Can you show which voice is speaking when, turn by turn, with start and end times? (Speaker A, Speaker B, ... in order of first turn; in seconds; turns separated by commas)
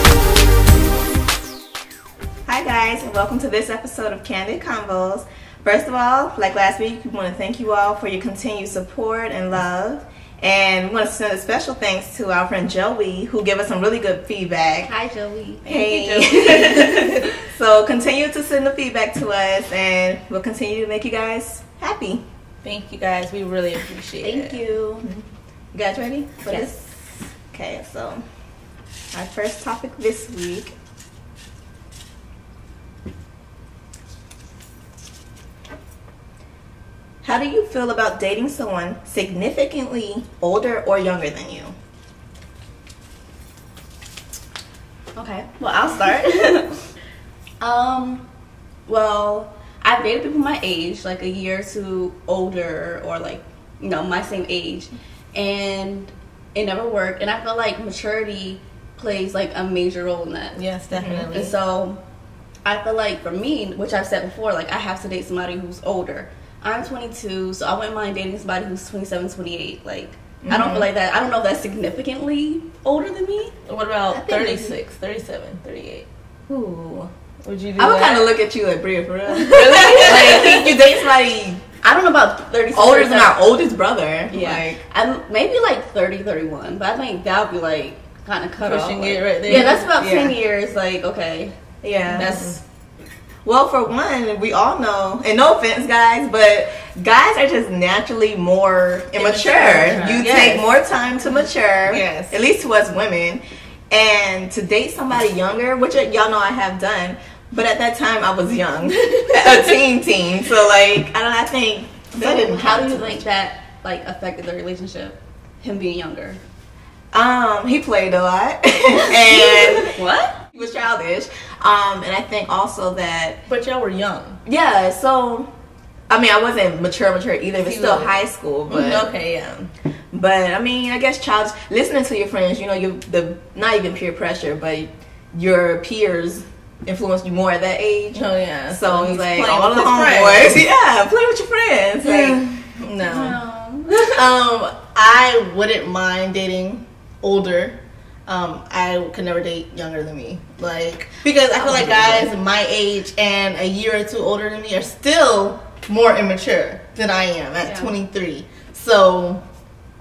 Speaker A: 2.5-14.9, Speaker B: 14.8-17.2, Speaker C: 15.7-17.3, Speaker A: 15.7-22.2, Speaker C: 22.6-24.6, Speaker B: 24.2-25.1, Speaker A: 25.7-26.9, Speaker B: 26.5-26.7, Speaker A: 27.5-28.2, Speaker A: 29.1-30.7, Speaker A: 37.2-41.8, Speaker B: 45.1-46.9, Speaker B: 47.6-48.3, Speaker B: 48.9-62.0, Speaker C: 60.6-61.6, Speaker B: 62.6-73.5, Speaker C: 70.4-70.9, Speaker C: 73.7-76.1, Speaker B: 74.1-74.7, Speaker C: 77.4-78.4, Speaker A: 77.8-81.6, Speaker B: 79.5-80.7, Speaker C: 79.5-80.7, Speaker B: 81.8-83.4, Speaker A: 82.7-84.8, Speaker B: 84.3-91.5, Speaker C: 88.6-89.9, Speaker A: 89.5-90.3, Speaker A: 91.8-92.5, Speaker C: 92.1-92.6, Speaker B: 92.2-92.5, Speaker A: 93.5-113.2, Speaker C: 99.2-100.7, Speaker C: 101.9-102.4, Speaker B: 112.2-116.4, Speaker A: 117.1-120.0, Speaker C: 119.0-119.8, Speaker B: 119.5-120.4, Speaker A: 120.5-123.4, Speaker C: 123.5-124.4, Speaker A: 124.5-125.5, Speaker A: 126.1-129.1, Speaker C: 127.6-128.1, Speaker C: 128.7-129.7, Speaker A: 130.1-142.4, Speaker C: 138.1-140.7, Speaker C: 142.0-143.4, Speaker B: 143.0-144.2, Speaker C: 144.1-159.4, Speaker A: 151.6-152.3, Speaker B: 151.6-152.1, Speaker B: 157.6-157.9